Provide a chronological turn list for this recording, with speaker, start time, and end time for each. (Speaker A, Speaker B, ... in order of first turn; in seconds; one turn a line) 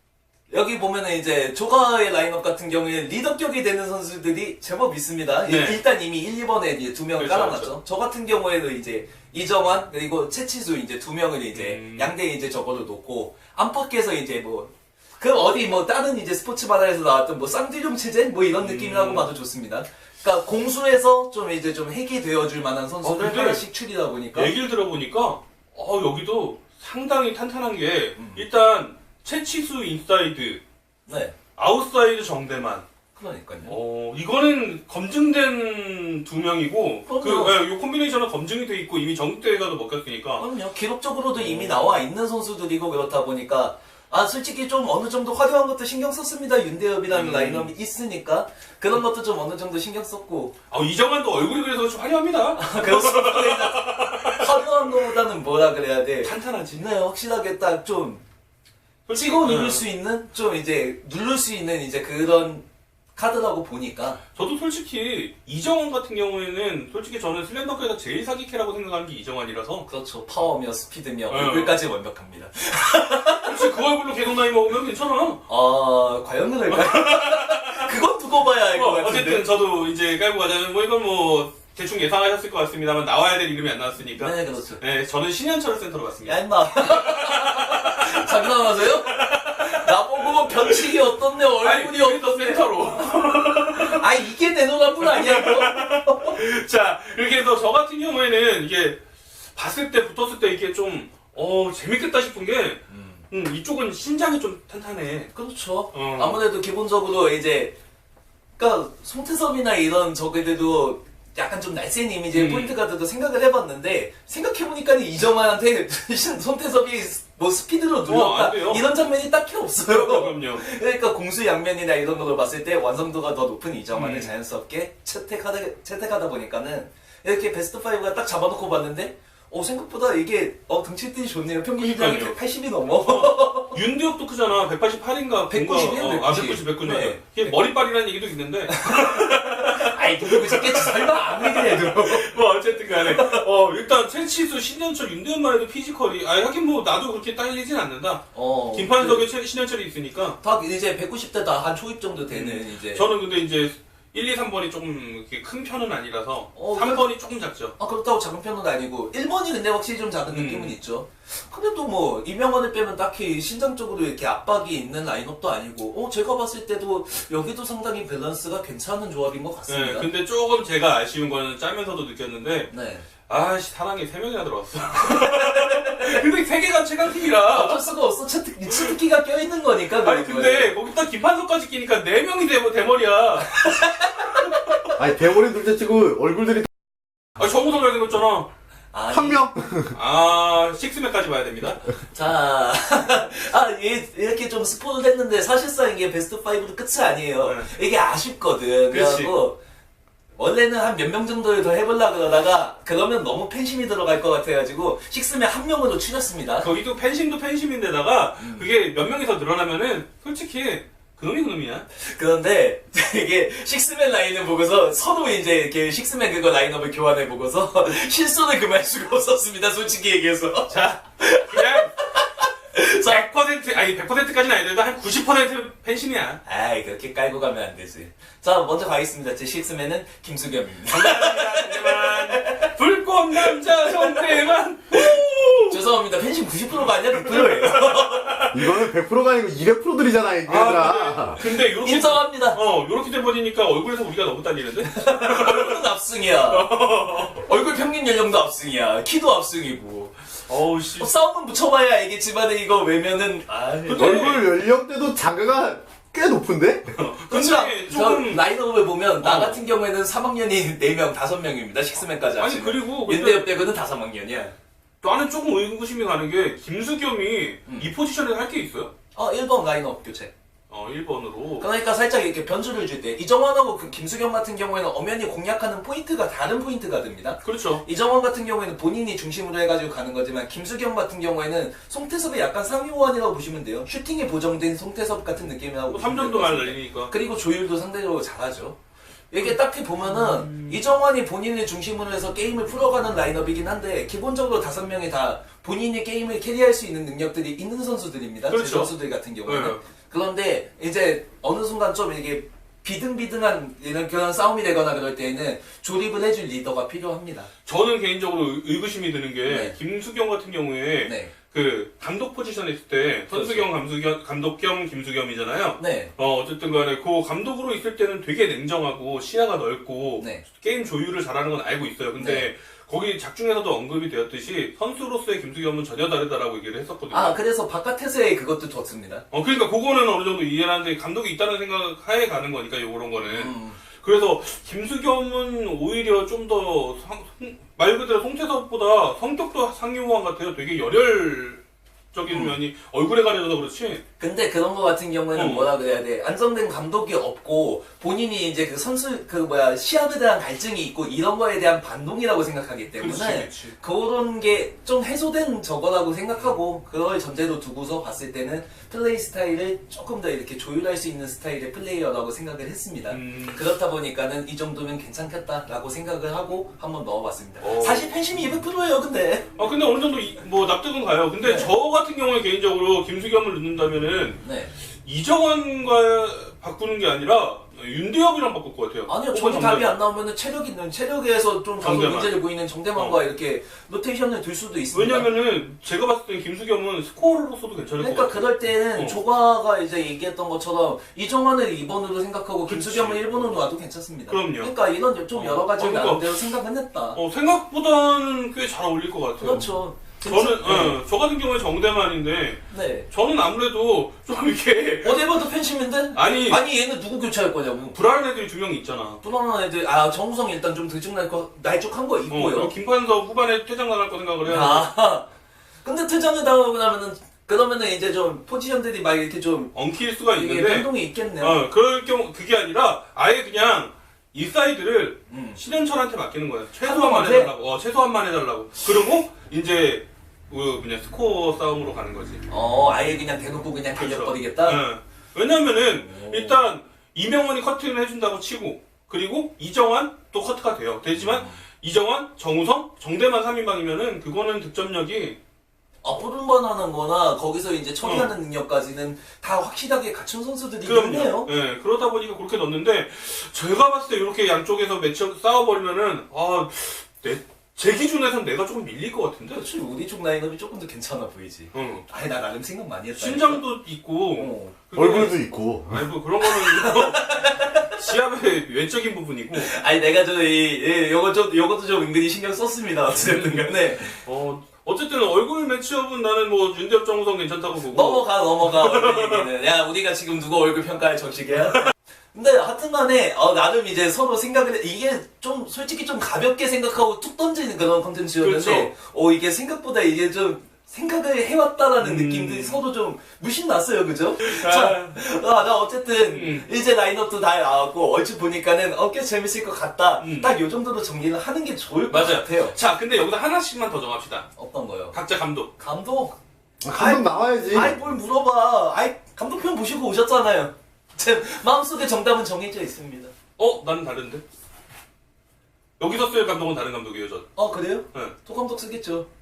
Speaker A: 0.5-24.5
Speaker B: 5.5-5.8
Speaker B: 7.2-7.7
Speaker B: 11.5-12.1
Speaker B: 18.6-19.3
Speaker B: 23.0-23.6
Speaker B: 24.3-30.6
Speaker A: 28.1-28.4
Speaker A: 31.1-31.3
Speaker B: 31.6-32.8
Speaker A: 33.1-33.8
Speaker B: 33.6-40.5
Speaker A: 37.0-37.6
Speaker A: 40.4-50.5
Speaker B: 41.3-42.0
Speaker B: 47.1-47.7
Speaker B: 50.7-55.0
Speaker A: 52.5-58.2
Speaker B: 56.2-56.8
Speaker B: 59.1-59.8
Speaker A: 59.1-64.2
Speaker B: 64.3-69.9
Speaker A: 69.9-73.7
Speaker B: 71.3-71.8
Speaker B: 73.4-75.4
Speaker A: 75.5-79.5
Speaker B: 76.7-77.9
Speaker B: 78.7-91.0
Speaker A: 84.1-84.8
Speaker A: 86.2-93.2
Speaker B: 91.6-94.0
Speaker A: 93.8-96.4
Speaker B: 95.0-99.0
Speaker B: 99.5-105.3
Speaker A: 102.9-103.2
Speaker A: 105.3-107.7
Speaker B: 105.9-106.4
Speaker A: 108.6-133.8
Speaker B: 112.3-112.8
Speaker B: 118.0-118.9
Speaker B: 119.8-120.6
Speaker B: 123.9-124.3
Speaker B: 131.8-132.3
Speaker B: 133.0-150.4
Speaker A: 135.5-137.6
Speaker A: 138.7-142.3
Speaker A: 143.0-143.4
Speaker A: 148.3-149.3
Speaker A: 150.4-153.1
Speaker B: 152.3-157.7
Speaker A: 156.5-157.1
Speaker A: 157.8-170.1
Speaker B: 160.3-160.8
Speaker B: 169.7-172.7
Speaker A: 172.7-173.1
Speaker B: 173.3-177.8
Speaker A: 175.0-176.2
Speaker A: 177.5-180.7
Speaker B: 180.0-183.7
Speaker A: 183.5-184.5
Speaker C: 185.0-186.7
Speaker B: 187.4-188.5
Speaker A: 188.9-189.4
Speaker C: 189.1-189.9
Speaker B: 189.9-191.8
Speaker A: 192.1-199.6
Speaker B: 197.4-197.7
Speaker B: 198.9-199.3
Speaker A: 200.3-206.7
Speaker B: 206.6-211.9
Speaker A: 208.4-208.7
Speaker A: 211.9-223.3
Speaker B: 220.7-221.9
Speaker B: 223.1-226.4
Speaker A: 226.4-232.7
Speaker B: 230.9-235.8
Speaker A: 233.4-234.3
Speaker A: 235.7-238.5
Speaker B: 237.2-238.8
Speaker C: 238.5-241.4
Speaker B: 240.4-247.4
Speaker A: 241.8-242.6
Speaker A: 244.8-246.7
Speaker A: 247.3-250.2
Speaker B: 250.5-251.1
Speaker A: 251.0-254.3
Speaker B: 253.8-254.5
Speaker C: 253.9-256.9
Speaker B: 256.9-258.4
Speaker A: 257.3-264.5
Speaker B: 259.2-259.6
Speaker B: 262.4-263.5
Speaker B: 265.0-268.9
Speaker A: 267.6-267.9
Speaker A: 269.1-270.3
Speaker B: 270.7-271.6
Speaker A: 271.6-288.8
Speaker B: 277.4-277.8
Speaker B: 285.9-287.1
Speaker A: 289.3-307.5
Speaker B: 289.4-290.8
Speaker B: 298.5-299.8
Speaker B: 307.6-327.4
Speaker A: 309.4-309.8
Speaker A: 311.0-311.3
Speaker A: 313.3-313.7
Speaker A: 315.8-316.1
Speaker A: 322.2-322.5
Speaker A: 327.1-329.2
Speaker B: 329.3-341.6
Speaker A: 333.2-333.8
Speaker B: 342.1-344.0
Speaker A: 342.3-342.6
Speaker A: 344.2-369.5
Speaker B: 345.3-345.7
Speaker B: 353.0-353.8
Speaker B: 363.1-363.6
Speaker B: 367.6-368.1
Speaker B: 369.6-374.4
Speaker A: 371.4-371.7
Speaker A: 374.4-374.7
Speaker B: 375.0-379.9
Speaker A: 379.1-385.3
Speaker B: 381.8-382.4
Speaker B: 384.9-389.2
Speaker A: 388.0-397.2
Speaker B: 392.7-393.7
Speaker B: 394.3-394.7
Speaker B: 395.3-396.5
Speaker B: 397.1-405.3
Speaker A: 399.4-401.0
Speaker A: 402.7-403.1
Speaker A: 405.0-408.0
Speaker B: 406.1-406.6
Speaker B: 407.9-409.2
Speaker A: 409.2-412.7
Speaker B: 412.3-414.9
Speaker A: 414.4-415.3
Speaker A: 415.8-419.7
Speaker B: 419.7-432.4
Speaker A: 420.3-421.6
Speaker A: 425.3-425.6
Speaker A: 426.8-427.5
Speaker A: 432.5-434.8
Speaker B: 433.9-445.4
Speaker A: 436.0-436.6
Speaker A: 441.2-441.6
Speaker A: 446.0-451.5
Speaker B: 448.0-448.3
Speaker B: 450.8-459.6
Speaker A: 459.5-463.6
Speaker B: 461.7-462.0
Speaker B: 463.2-469.7
Speaker A: 464.3-464.7
Speaker C: 464.9-466.1
Speaker A: 466.4-467.9
Speaker A: 469.5-474.2
Speaker B: 473.1-479.5
Speaker A: 477.9-502.7
Speaker B: 488.4-488.9
Speaker B: 492.0-492.8
Speaker B: 494.4-495.1
Speaker B: 496.2-496.6
Speaker B: 500.2-500.6
Speaker B: 502.1-504.5
Speaker A: 504.6-505.1
Speaker B: 505.1-505.7
Speaker A: 505.8-506.4
Speaker C: 506.8-507.9
Speaker A: 506.9-513.3
Speaker B: 513.6-514.4
Speaker B: 516.0-517.5
Speaker A: 517.5-519.3